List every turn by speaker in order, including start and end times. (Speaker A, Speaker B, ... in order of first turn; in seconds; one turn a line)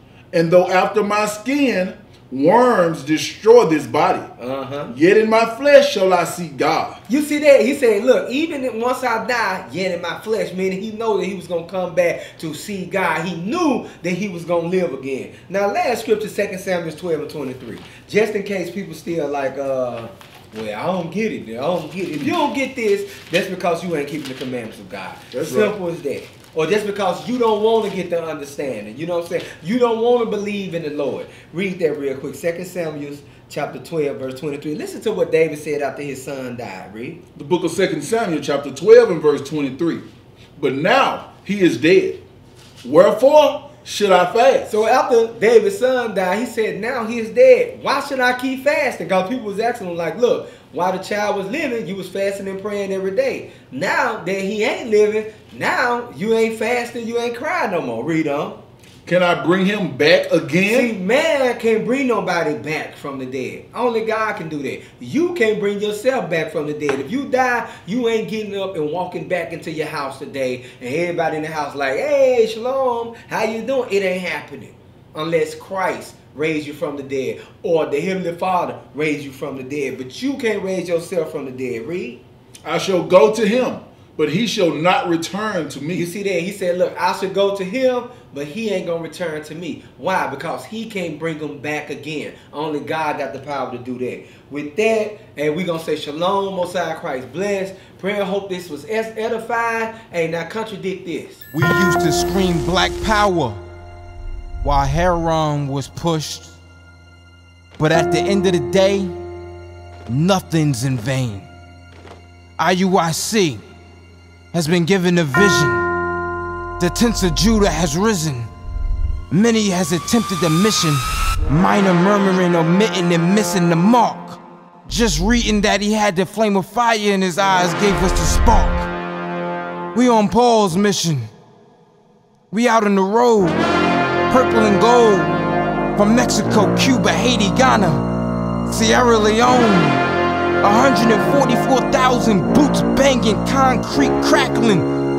Speaker A: 0.3-4.3
Speaker B: 4.4-4.9
Speaker A: 4.9-7.0
Speaker B: 7.1-37.2
Speaker A: 25.3-25.7
Speaker A: 37.4-42.2
Speaker A: 42.8-44.8
Speaker B: 44.7-58.6
Speaker A: 59.1-60.9
Speaker B: 60.7-82.2
Speaker A: 82.7-86.1
Speaker B: 85.9-101.5
Speaker C: 101.5-103.6
Speaker C: 104.6-106.6
Speaker C: 107.8-109.2
Speaker C: 110.1-111.5
Speaker C: 112.6-113.7
Speaker C: 114.5-115.9
Speaker C: 116.8-118.5
Speaker C: 119.3-128.9
Speaker C: 129.9-131.3
Speaker C: 132.5-133.6
Speaker C: 134.3-135.4
Speaker C: 136.0-138.1
Speaker C: 138.7-140.0
Speaker C: 140.6-144.9